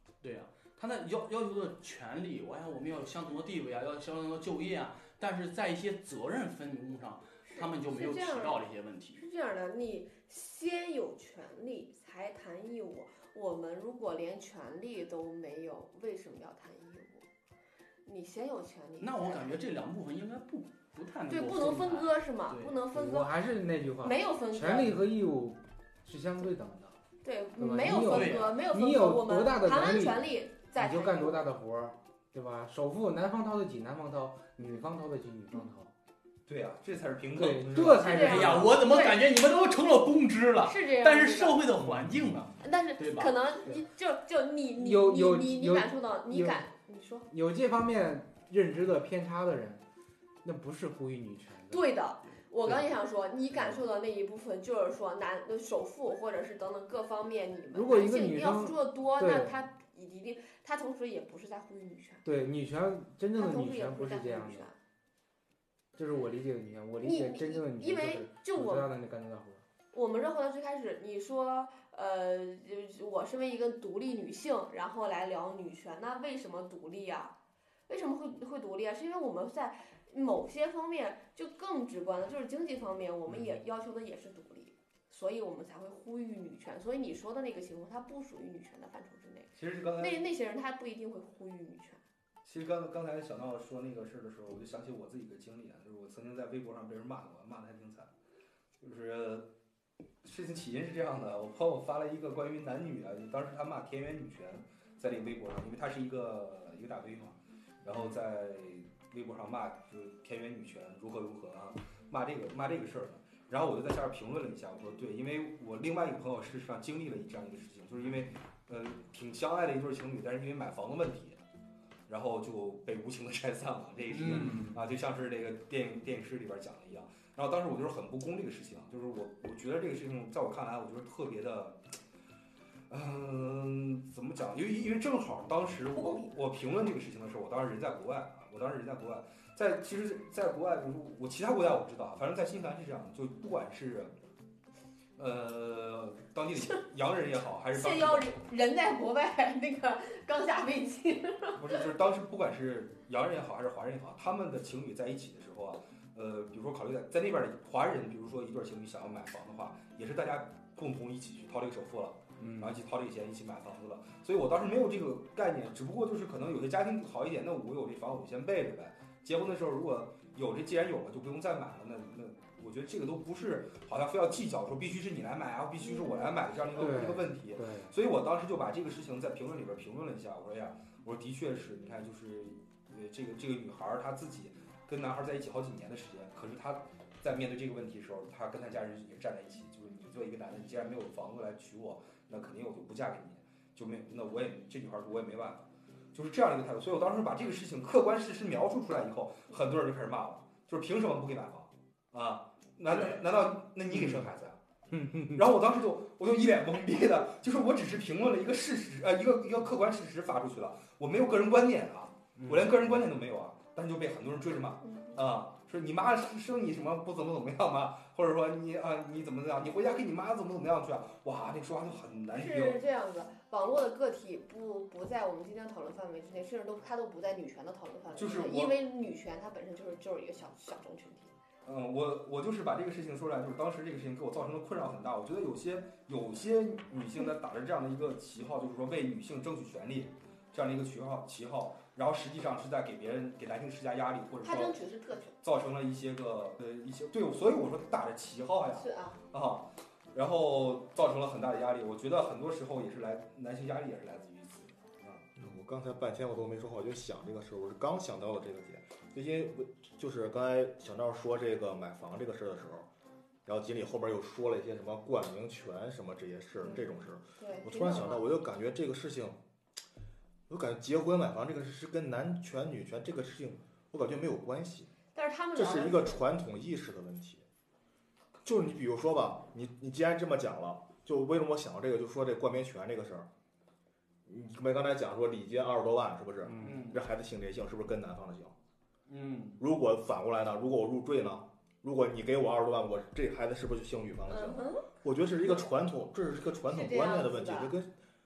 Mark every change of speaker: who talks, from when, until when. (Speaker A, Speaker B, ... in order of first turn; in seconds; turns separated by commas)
Speaker A: 0.2-9.2, Speaker B: 7.5-17.3, Speaker B: 18.1-19.6, Speaker A: 19.0-22.8, Speaker B: 21.3-23.3, Speaker C: 22.9-27.0, Speaker B: 24.0-25.0, Speaker B: 27.2-31.4, Speaker C: 27.6-35.9, Speaker A: 28.1-28.6, Speaker D: 36.5-38.7, Speaker C: 37.3-38.7, Speaker B: 37.9-39.2, Speaker A: 38.1-43.4, Speaker B: 40.6-41.6, Speaker B: 42.6-47.3, Speaker C: 44.8-46.6, Speaker C: 47.3-49.8, Speaker C: 50.4-51.9, Speaker B: 51.7-62.2, Speaker C: 57.7-59.6, Speaker C: 62.2-64.7, Speaker B: 63.3-64.8, Speaker C: 65.9-69.6, Speaker B: 67.0-68.9, Speaker B: 69.9-77.3, Speaker B: 77.9-92.0, Speaker D: 89.6-90.2, Speaker D: 92.5-98.1, Speaker D: 98.8-99.5, Speaker D: 100.2-121.4, Speaker D: 122.1-131.8, Speaker A: 124.1-124.8, Speaker D: 132.9-144.1, Speaker B: 135.9-136.3, Speaker D: 145.2-148.3, Speaker B: 147.7-151.8, Speaker D: 151.6-204.6, Speaker C: 162.4-162.8, Speaker B: 175.8-176.3, Speaker C: 176.8-177.9, Speaker A: 202.9-203.2, Speaker C: 204.9-205.5, Speaker D: 205.3-222.8, Speaker C: 212.4-212.7, Speaker B: 214.8-215.2, Speaker B: 222.3-231.3, Speaker D: 228.2-228.8, Speaker D: 231.7-244.8, Speaker B: 244.4-245.3, Speaker D: 245.4-255.3, Speaker B: 248.8-249.2, Speaker E: 255.4-262.9, Speaker E: 263.4-269.4, Speaker B: 266.6-268.3, Speaker E: 270.5-274.9, Speaker B: 275.1-276.2, Speaker E: 275.5-277.4, Speaker E: 278.4-283.3, Speaker E: 284.3-288.6, Speaker C: 286.5-286.9, Speaker A: 286.6-287.0, Speaker A: 289.1-289.6, Speaker E: 289.6-297.9, Speaker B: 294.3-294.9, Speaker B: 296.7-297.7